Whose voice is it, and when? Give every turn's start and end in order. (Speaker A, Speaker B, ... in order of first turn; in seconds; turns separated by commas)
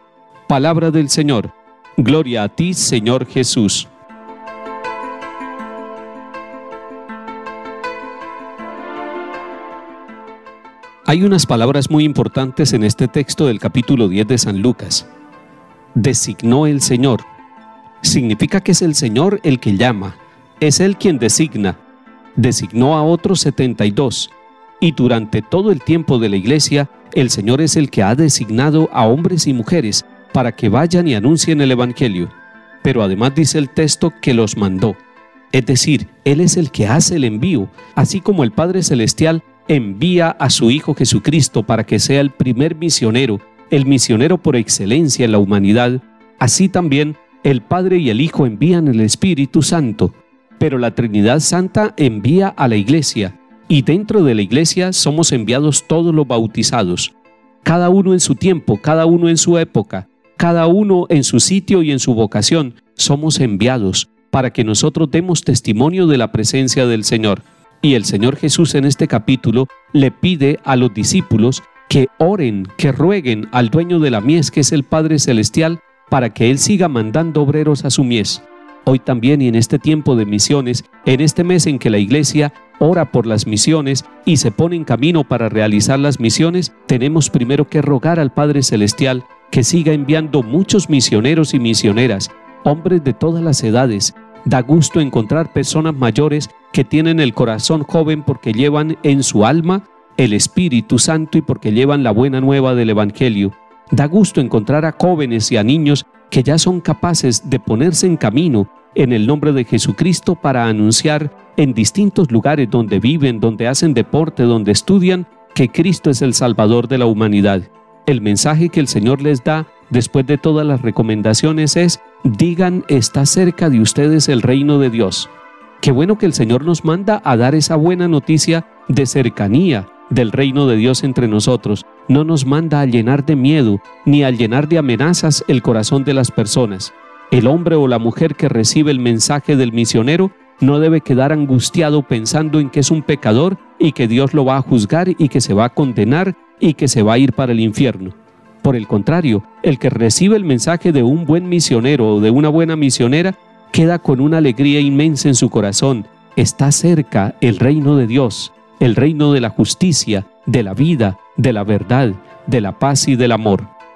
Speaker A: 0.5-3.9, Speaker A: 11.1-15.1, Speaker A: 16.0-17.2, Speaker A: 18.0-21.8, Speaker A: 22.4-35.0, Speaker A: 35.5-163.7